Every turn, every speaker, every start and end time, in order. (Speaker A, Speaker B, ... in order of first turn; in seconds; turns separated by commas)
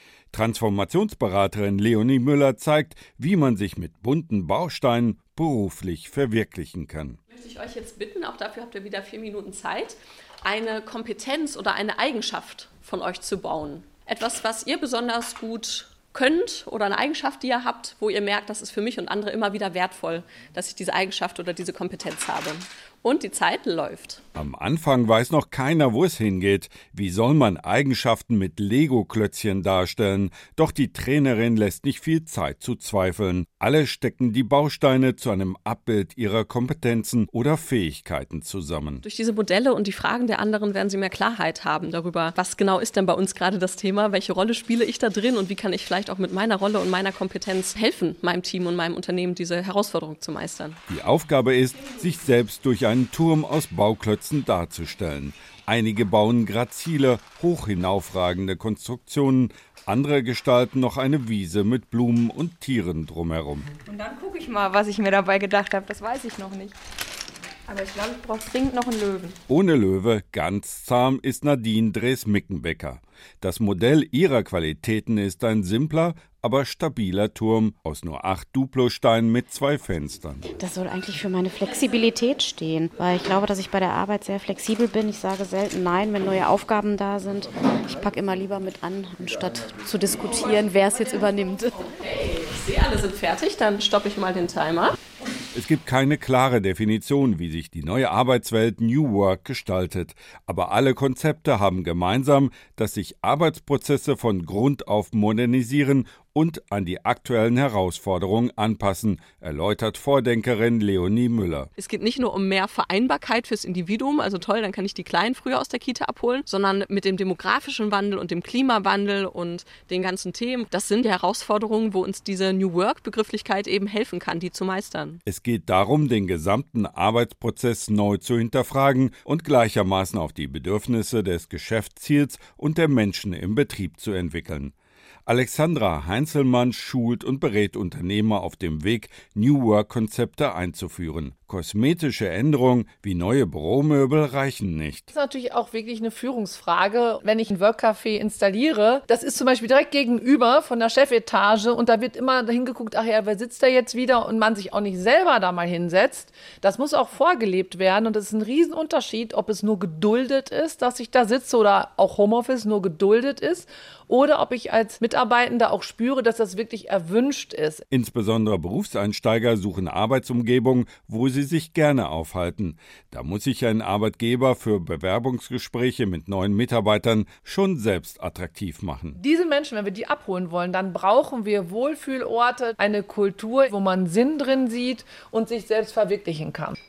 Speaker A: 0.3-7.2, Speaker B: 7.3-24.2, Speaker A: 24.4-39.0, Speaker B: 39.0-50.8, Speaker A: 50.9-63.7, Speaker C: 63.9-66.7, Speaker C: 67.7-69.3, Speaker A: 69.5-80.5, Speaker D: 80.6-89.8, Speaker C: 89.9-91.7, Speaker B: 90.2-95.0, Speaker A: 95.5-111.7, Speaker B: 111.8-125.2, Speaker A: 125.2-134.7, Speaker A: 135.3-145.1, Speaker E: 145.1-167.8, Speaker A: 167.9-179.2, Speaker E: 179.2-186.8